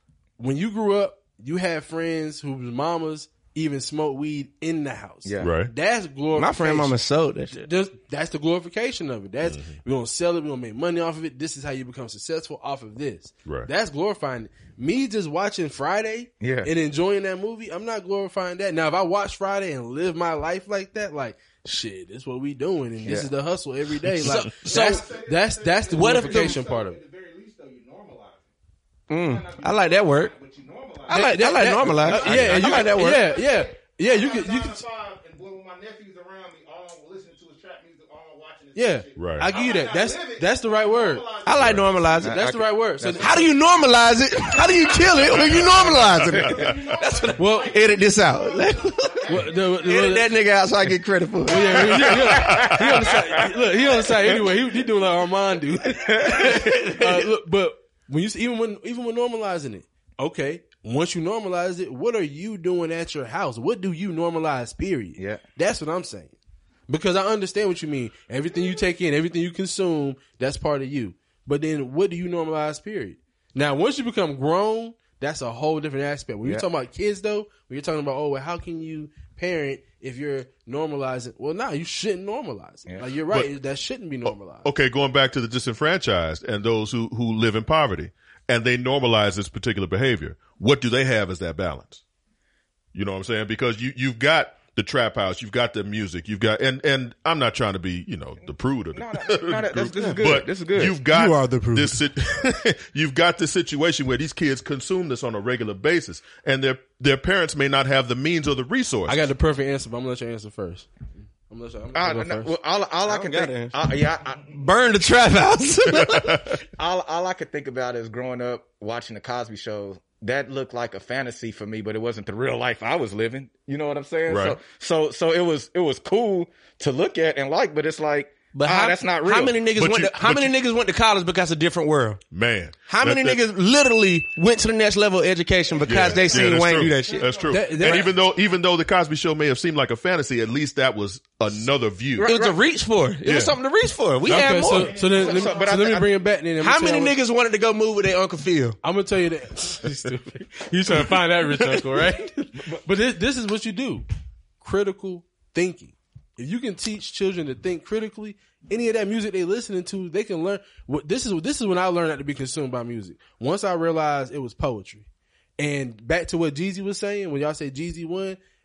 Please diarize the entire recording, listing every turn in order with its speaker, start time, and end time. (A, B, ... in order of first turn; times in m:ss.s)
0:00.4-0:07.0 A
0:05.2-0:05.5 B
0:05.4-0:05.7 C
0:06.4-0:07.7 D
0:07.5-0:27.0 A
0:16.4-0:16.7 B
0:23.0-0:23.3 B
0:24.2-0:25.1 D
0:24.5-0:28.5 E
0:25.9-0:26.6 D
0:29.1-0:30.3 D
0:29.1-0:42.2 E
0:31.1-0:33.3 D
0:31.1-0:34.8 A
0:32.2-0:32.6 C
0:38.8-0:41.3 A
0:39.2-0:39.5 C
0:41.4-0:42.4 D
0:42.2-0:43.4 A
0:42.2-0:43.4 B
0:43.2-0:52.0 D
0:44.9-0:50.3 E
0:46.2-0:46.7 C
0:47.4-0:47.8 A
0:49.3-0:50.3 A
0:51.5-1:06.4 A
0:51.9-0:52.8 C
0:56.4-0:57.2 D
1:06.9-1:24.7 A
1:24.3-1:32.0 C
1:32.9-1:49.2 C
1:38.9-1:41.0 B
1:40.0-1:40.2 D
1:41.1-1:42.0 D
1:49.1-1:50.9 A
1:51.5-1:52.5 A
1:51.9-1:54.6 B
1:53.0-1:53.8 D
1:54.5-1:56.4 D
1:55.9-1:56.6 C
1:56.7-2:09.6 B
2:04.3-2:04.6 C
2:08.5-2:12.2 D
2:09.7-2:10.5 C
2:12.3-2:13.4 C
2:12.9-2:18.1 D
2:15.7-2:18.0 E
2:15.9-2:22.3 C
2:17.5-2:18.1 A
2:22.2-2:22.6 B
2:22.2-2:25.0 D
2:23.2-2:23.6 C
2:24.3-2:27.1 A
2:24.4-2:26.0 E
2:25.1-2:26.1 B
2:26.6-2:28.8 D
2:28.8-2:34.0 A
2:31.7-2:32.2 D
2:34.6-2:45.1 A
2:45.6-2:48.4 A